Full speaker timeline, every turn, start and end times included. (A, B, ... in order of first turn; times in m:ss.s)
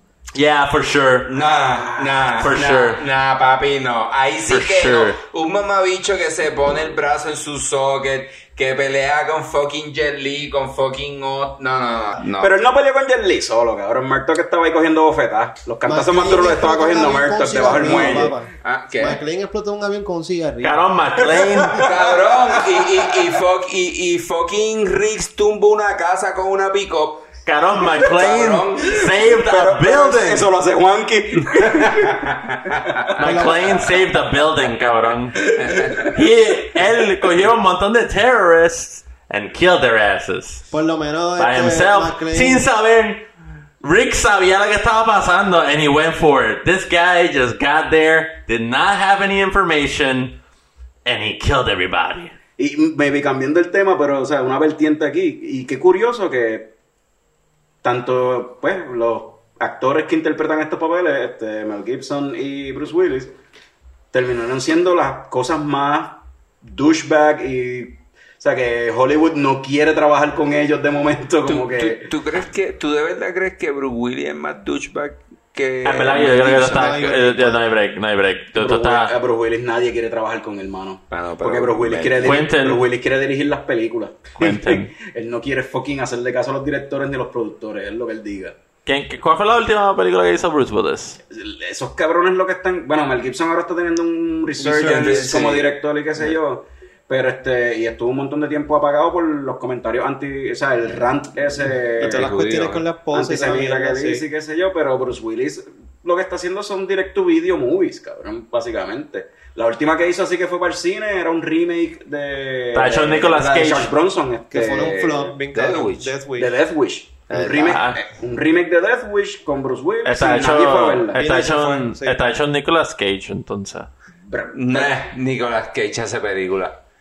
0:00.3-0:01.3 A
0:01.3-0:12.5 B
0:02.4-0:03.0 A
0:04.5-0:05.2 A
0:12.4-0:18.3 C
0:15.9-0:20.9 D
0:17.7-0:19.2 B
0:20.6-0:21.9 A
0:21.7-0:22.3 C
0:21.8-0:27.4 B
0:27.5-0:30.5 A
0:28.0-0:29.2 B
0:29.3-0:32.7 C
0:33.2-0:35.4 A
0:33.2-0:33.8 D
0:35.6-0:36.2 B
0:36.0-0:40.6 A
0:40.7-0:42.6 D
0:41.4-0:43.2 A
0:43.8-0:50.4 A
0:51.1-0:52.4 A
0:52.6-0:56.7 C
0:57.8-1:03.4 C
1:04.1-1:12.1 C
1:11.4-1:17.4 B
1:15.8-1:19.2 A
1:16.7-1:17.5 D
1:18.6-1:28.6 C
1:21.1-1:22.5 B
1:22.2-1:22.9 A
1:24.4-1:24.9 A
1:28.9-1:31.2 A
1:31.3-1:42.3 C
1:34.6-1:35.3 D
1:34.6-1:35.8 B
1:42.0-1:44.2 D
1:42.0-1:42.8 B
1:43.1-1:55.4 C
1:52.7-1:53.9 A
1:54.5-1:56.5 D
1:55.5-1:56.2 B
1:56.4-2:01.2 C
1:57.3-1:57.8 B
1:57.6-1:58.0 A
2:00.0-2:03.9 A
2:01.2-2:02.2 D
2:04.3-2:05.0 C
2:04.5-2:06.8 B